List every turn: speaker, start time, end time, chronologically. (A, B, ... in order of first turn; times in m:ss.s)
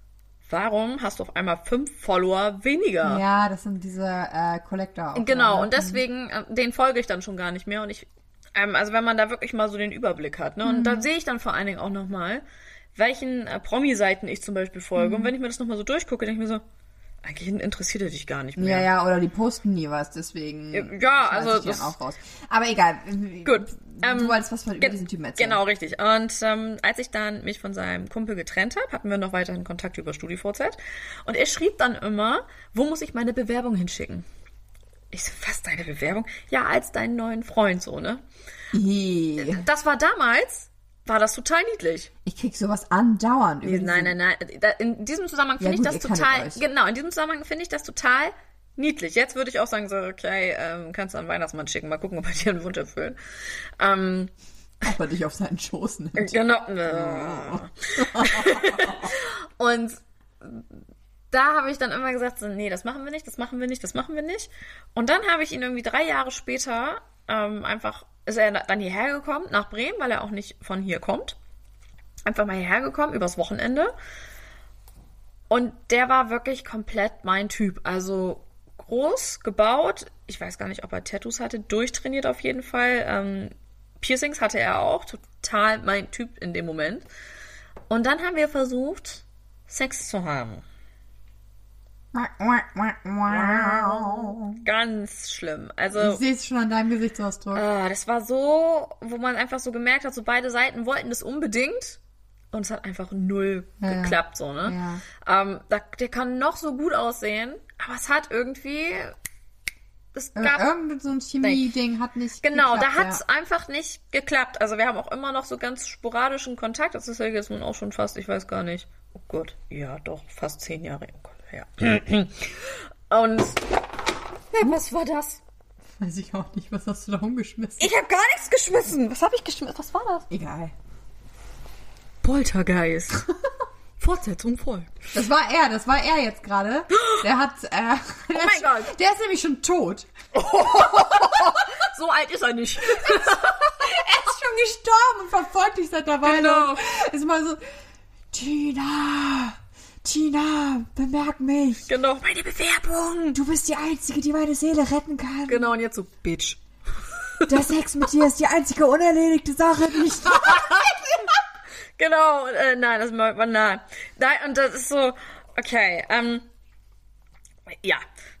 0:00.4-0:03.2 A
0:03.0-0:06.0 B
0:05.1-0:12.4 A
0:10.6-0:11.1 B
0:12.9-0:16.6 A
0:15.0-0:15.3 B
0:17.2-0:18.9 A
0:18.6-0:25.6 B
0:20.7-0:21.9 A
0:23.4-0:34.2 A
0:35.1-0:38.2 A
0:38.7-0:39.6 B
0:39.4-0:42.1 A
0:42.2-0:44.1 B
0:43.6-0:53.2 A
0:45.6-0:46.6 B
0:53.8-0:54.3 A
0:54.8-0:59.1 B
0:56.2-1:00.7 A
1:01.3-1:11.4 A
1:12.2-1:13.9 A
1:15.5-1:27.0 A
1:27.9-1:30.6 A
1:32.1-1:34.6 B
1:33.2-1:36.2 A
1:35.9-1:37.6 B
1:37.5-1:42.0 A
1:42.5-1:49.1 A
1:43.8-1:45.0 B
1:50.1-1:50.6 A
1:50.4-1:53.2 B
1:51.4-1:51.7 A
1:52.4-2:03.7 A
2:04.5-2:05.4 A
2:06.0-2:07.9 B
2:07.8-2:10.3 A
2:10.3-2:10.7 B
2:12.2-2:13.3 A
2:14.0-2:15.1 A
2:15.1-2:21.7 B
2:17.0-2:17.2 A
2:18.3-2:18.9 A
2:20.3-2:23.7 A
2:22.9-2:27.6 B
2:26.2-2:26.8 A
2:28.3-2:31.8 B
2:31.9-2:33.4 A
2:33.3-2:35.7 B
2:35.5-2:36.6 A
2:37.5-2:41.4 B
2:42.0-2:46.4 A
2:47.7-2:48.0 A